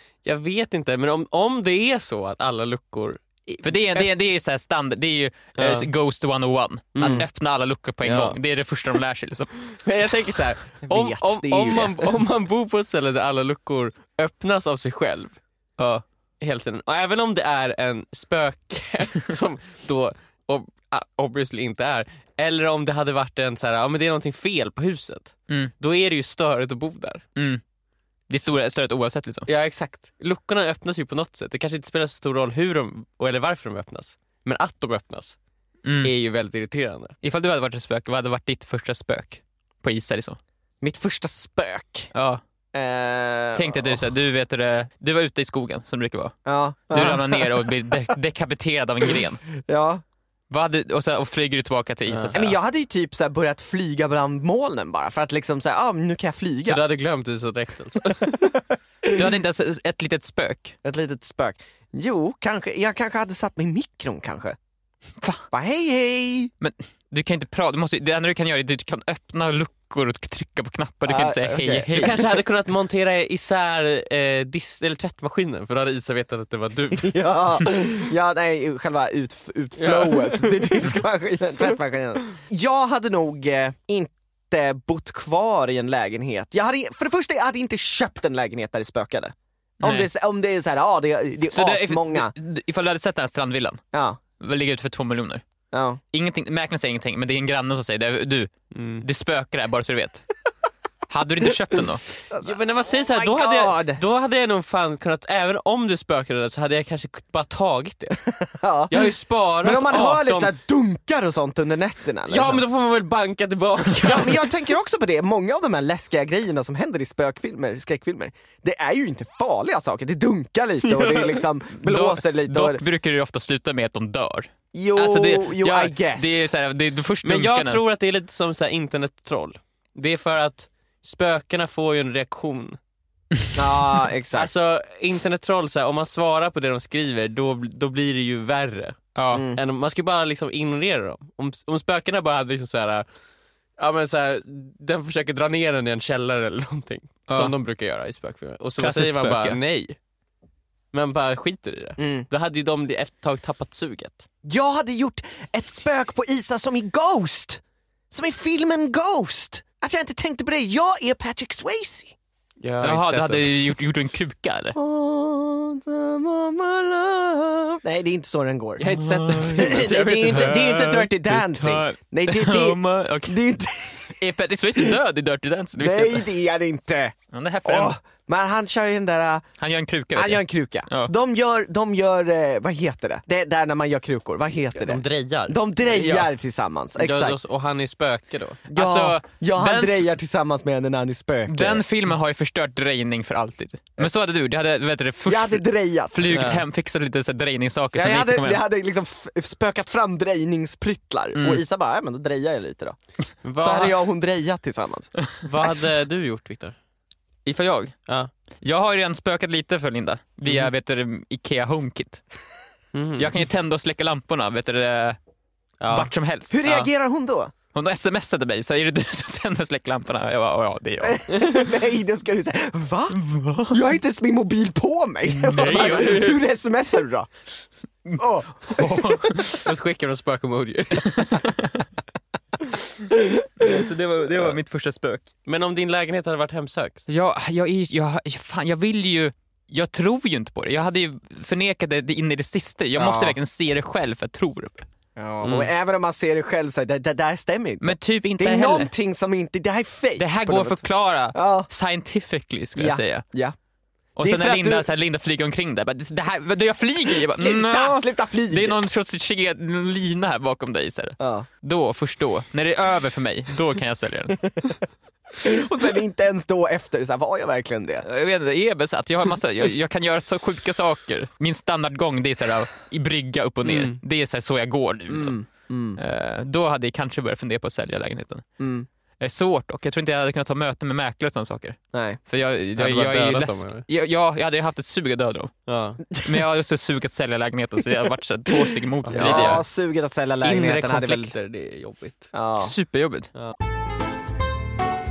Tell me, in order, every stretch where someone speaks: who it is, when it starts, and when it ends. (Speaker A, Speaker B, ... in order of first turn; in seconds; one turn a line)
Speaker A: 0.2-4.1
Speaker B: 3.6-9.6
Speaker A: 5.5-5.9
Speaker A: 7.0-7.2
Speaker A: 8.0-8.4
Speaker A: 9.8-15.4
Speaker C: 10.8-12.0
Speaker B: 15.8-16.0
Speaker A: 16.4-27.2
Speaker B: 27.4-27.6
Speaker B: 28.3-29.5
Speaker A: 29.5-35.4
Speaker B: 35.8-36.1
Speaker A: 36.0-37.1
Speaker B: 37.2-40.4
Speaker C: 40.8-42.1
Speaker B: 42.1-42.4
Speaker C: 42.7-44.0
Speaker B: 43.5-46.4
Speaker C: 46.5-47.9
Speaker B: 46.9-49.4
Speaker C: 49.6-50.0
Speaker B: 50.5-52.6
Speaker A: 52.1-52.4
Speaker C: 52.3-56.8
Speaker A: 56.6-58.5
Speaker C: 58.3-59.1
Speaker B: 59.1-60.7
Speaker C: 60.8-64.5
Speaker C: 65.5-66.5
Speaker B: 66.6-72.2
Speaker C: 71.0-72.0
Speaker A: 71.9-77.1
Speaker C: 77.0-92.3
Speaker A: 79.8-80.9
Speaker B: 89.8-90.1
Speaker B: 91.5-93.8
Speaker C: 93.9-94.2
Speaker B: 94.4-95.4
Speaker C: 95.7-96.0
Speaker B: 96.1-98.5
Speaker A: 98.7-99.0
Speaker B: 99.0-100.2
Speaker B: 101.1-102.1
Speaker C: 102.3-104.0
Speaker A: 102.4-108.2
Speaker C: 108.4-112.6
Speaker A: 108.9-110.5
Speaker A: 112.3-114.5
Speaker C: 114.0-122.8
Speaker A: 121.0-121.3
Speaker B: 121.8-127.8
Speaker C: 124.7-126.5
Speaker A: 127.2-132.8
Speaker C: 133.5-134.5
Speaker A: 134.3-139.0
Speaker B: 139.2-139.5
Speaker C: 139.3-139.6
Speaker A: 139.5-143.0
Speaker A: 143.8-150.0
Speaker B: 148.8-149.6
Speaker A: 150.9-154.2
Speaker C: 152.0-152.3
Speaker C: 154.4-162.1
Speaker A: 162.6-163.5
Speaker B: 162.8-164.8
Speaker C: 164.7-174.9
Speaker A: 168.8-170.5
Speaker B: 168.9-173.4
Speaker B: 174.1-176.3
Speaker C: 175.8-179.4
Speaker B: 177.3-178.0
Speaker B: 179.6-181.1
Speaker C: 180.1-187.4
Speaker A: 184.8-186.2
Speaker A: 187.0-188.6
Speaker C: 188.7-191.8
Speaker B: 188.7-190.1
Speaker B: 191.5-198.6
Speaker C: 195.2-196.5
Speaker A: 196.3-196.6
Speaker C: 197.9-203.0
Speaker B: 201.3-201.6
Speaker A: 203.4-203.9
Speaker C: 203.6-205.1
Speaker A: 205.4-206.8
Speaker B: 207.4-207.9
Speaker B: 208.6-212.2
Speaker A: 212.9-213.3
Speaker B: 213.2-215.2
Speaker A: 215.8-216.1
Speaker B: 215.9-216.6
Speaker C: 216.5-217.5
Speaker B: 217.7-221.7
Speaker C: 221.0-227.3
Speaker B: 223.1-223.8
Speaker B: 225.3-226.4
Speaker A: 225.6-226.4
Speaker B: 228.1-229.7
Speaker C: 228.2-229.5
Speaker A: 229.6-231.4
Speaker B: 231.1-231.9
Speaker C: 233.3-233.7
Speaker B: 233.6-235.3
Speaker A: 235.4-237.0
Speaker B: 237.1-244.9
Speaker C: 242.9-243.4
Speaker C: 245.2-250.8
Speaker A: 245.4-245.7
Speaker B: 247.8-248.9
Speaker B: 250.2-253.2
Speaker C: 251.3-251.7
Speaker C: 252.8-253.6
Speaker B: 254.2-264.6
Speaker C: 254.2-254.9
Speaker C: 257.2-258.8
Speaker C: 261.2-261.5
Speaker C: 265.3-268.1
Speaker B: 268.0-275.4
Speaker A: 273.6-274.0
Speaker C: 275.1-276.0
Speaker B: 276.0-278.4
Speaker C: 278.6-278.9
Speaker B: 279.2-285.6
Speaker C: 281.9-282.2
Speaker A: 282.8-283.8
Speaker A: 285.7-286.0
Speaker C: 286.1-286.4
Speaker B: 286.2-289.6
Speaker A: 289.0-289.6
Speaker C: 289.1-291.3
Speaker A: 290.4-292.3
Speaker C: 292.3-292.7
Speaker B: 292.6-293.3